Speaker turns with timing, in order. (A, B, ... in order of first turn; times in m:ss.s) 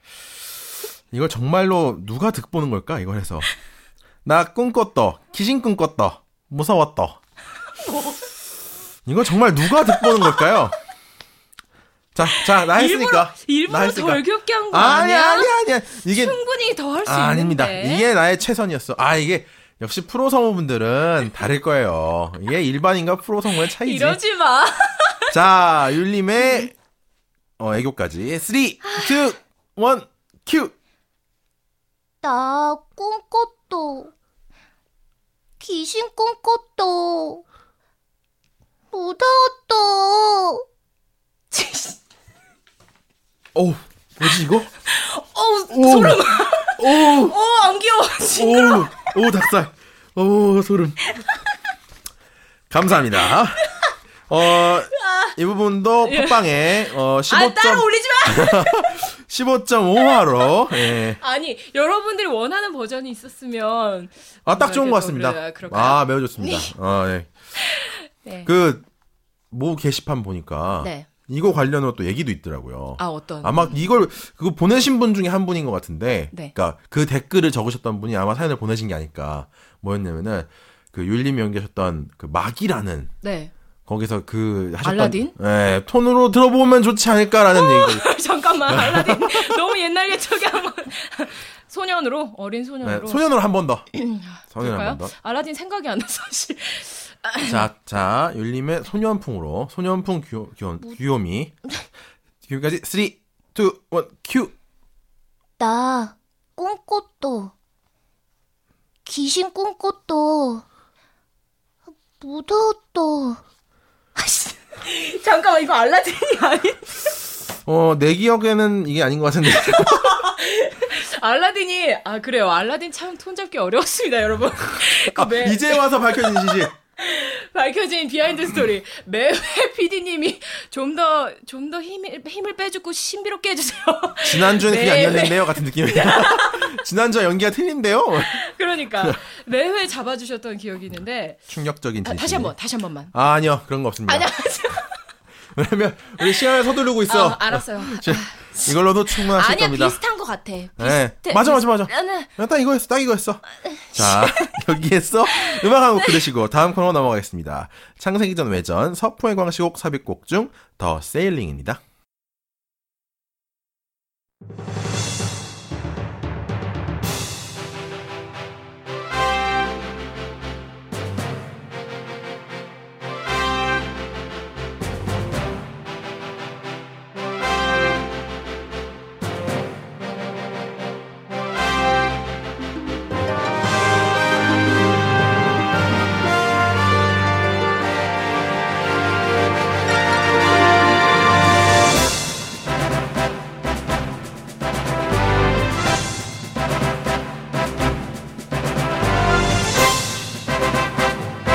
0:01.1-0:03.5 A
0:04.2-0:07.2 A
0:07.8-0:08.2 B
0:09.0-0:10.8 A
0:09.9-0:10.5 B
0:12.1-0:16.4 A
0:12.3-0:18.0 B
0:17.0-0:24.2 A
0:23.6-0:25.3 B
0:25.3-0:26.7 A
0:27.6-0:30.7 A
0:32.2-0:34.1 C
0:35.6-0:37.4 C
0:38.9-0:40.6 C
0:41.5-0:42.0 B
0:43.5-0:44.7 A
0:44.8-0:49.1 B
0:45.7-0:47.4 A
0:48.3-0:51.1 A
0:52.7-1:01.2 A
0:54.9-0:55.3 B
0:56.0-0:56.6 B
0:57.3-0:59.0 B
1:00.7-1:06.7 B
1:04.4-1:07.3 A
1:07.6-1:08.5 B
1:08.4-1:08.8 A
1:09.5-1:23.1 A
1:10.8-1:11.1 B
1:13.0-1:13.8 B
1:23.2-1:23.5 B
1:23.9-1:28.1 A
1:24.8-1:25.3 B
1:27.5-1:33.3 B
1:28.7-1:29.5 A
1:32.8-1:35.1 A
1:33.9-1:37.6 B
1:37.4-1:41.8 A
1:42.4-1:44.5 A
1:45.6-1:47.5 C
1:49.0-1:50.6 C
1:52.1-1:53.4 C
1:54.2-1:57.0 B
1:57.6-2:00.2 A
1:59.5-2:16.8 B
2:04.8-2:06.7 A
2:14.2-2:18.4 A
2:18.3-2:21.4 B
2:21.5-2:22.5 A
2:22.0-2:23.1 B
2:23.1-2:24.3 A
2:24.1-2:25.1 B
2:25.5-2:30.0 A
2:27.1-2:32.3 B
2:30.8-2:41.8 A
2:33.7-2:34.5 B